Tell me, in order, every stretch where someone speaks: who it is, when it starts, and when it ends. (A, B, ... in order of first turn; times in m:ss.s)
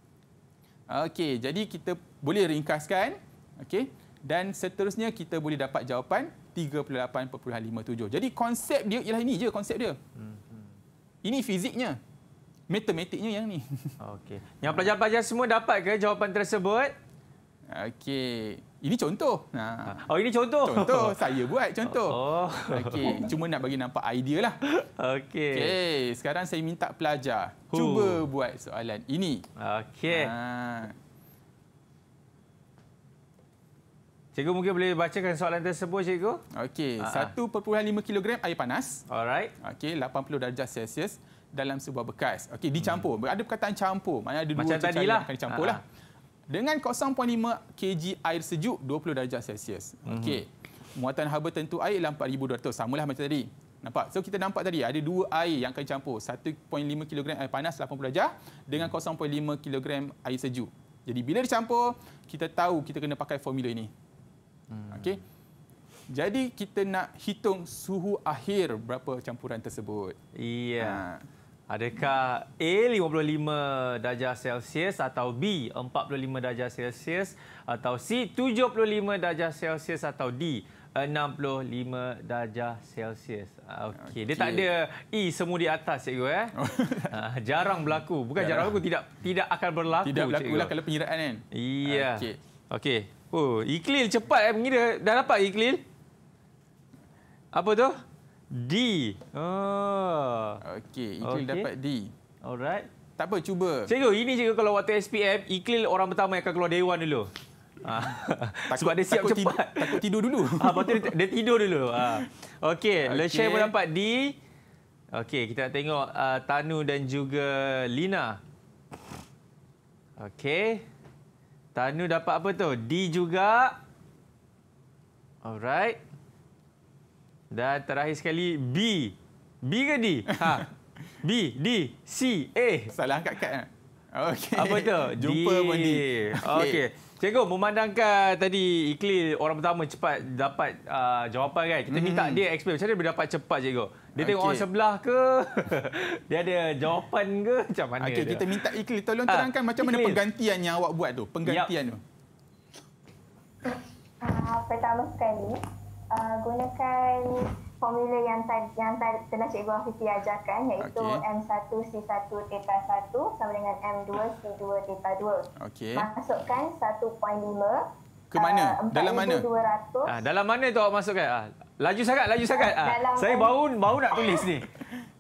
0:00.9-0:10.0 A
0:10.2-0:10.7 B
0:11.2-0:12.0 A
0:12.7-0:13.9 A
0:14.0-0:16.9 B
0:14.6-0:14.9 A
0:17.7-0:20.0 A
0:19.9-0:21.2 B
0:20.6-0:24.6 A
0:21.8-0:23.3 B
0:24.7-0:25.8 B
0:25.5-0:29.5 A
0:27.7-0:28.2 B
0:29.6-0:30.3 B
0:30.1-0:31.0 A
0:34.4-0:36.4 B
0:36.5-0:39.0 A
0:37.0-0:37.3 B
0:39.1-0:39.5 B
0:39.6-0:45.8 A
0:44.6-0:45.8 B
0:46.5-1:03.9 A
0:50.1-0:50.4 B
1:04.7-1:05.2 B
1:04.9-1:05.2 A
1:06.1-1:10.2 A
1:10.4-1:11.0 B
1:10.8-1:11.2 A
1:11.7-1:26.5 B
1:24.0-1:24.7 A
1:26.6-1:27.2 A
1:27.1-1:30.7 B
1:28.4-1:28.8 A
1:30.0-1:32.4 A
1:31.5-1:35.8 B
1:37.5-1:40.6 B
1:40.6-1:42.1 A
1:41.2-1:41.7 B
1:42.4-1:42.9 B
1:43.2-1:43.9 A
1:43.9-1:47.3 B
1:47.8-1:54.4 B
1:48.7-1:51.1 A
1:53.0-1:53.7 A
1:55.1-1:58.4 B
2:00.2-2:00.8 B
2:01.8-2:03.8 B
2:05.4-2:06.0 B
2:07.5-2:10.7 B
2:10.3-2:10.7 A
2:11.2-2:12.9 B
2:12.9-2:16.8 A
2:14.6-2:28.6 B
2:21.9-2:22.4 A
2:24.2-2:24.6 A
2:28.0-2:32.0 A
2:29.3-2:30.2 B
2:31.5-2:31.7 B
2:33.6-2:35.6 C
2:36.1-2:47.8 C
2:40.8-2:41.2 A
2:45.6-2:46.1 A
2:48.3-2:49.4 A
2:48.4-2:50.1 C
2:50.1-2:54.7 B
2:52.5-2:53.5 C
2:54.1-2:54.4 C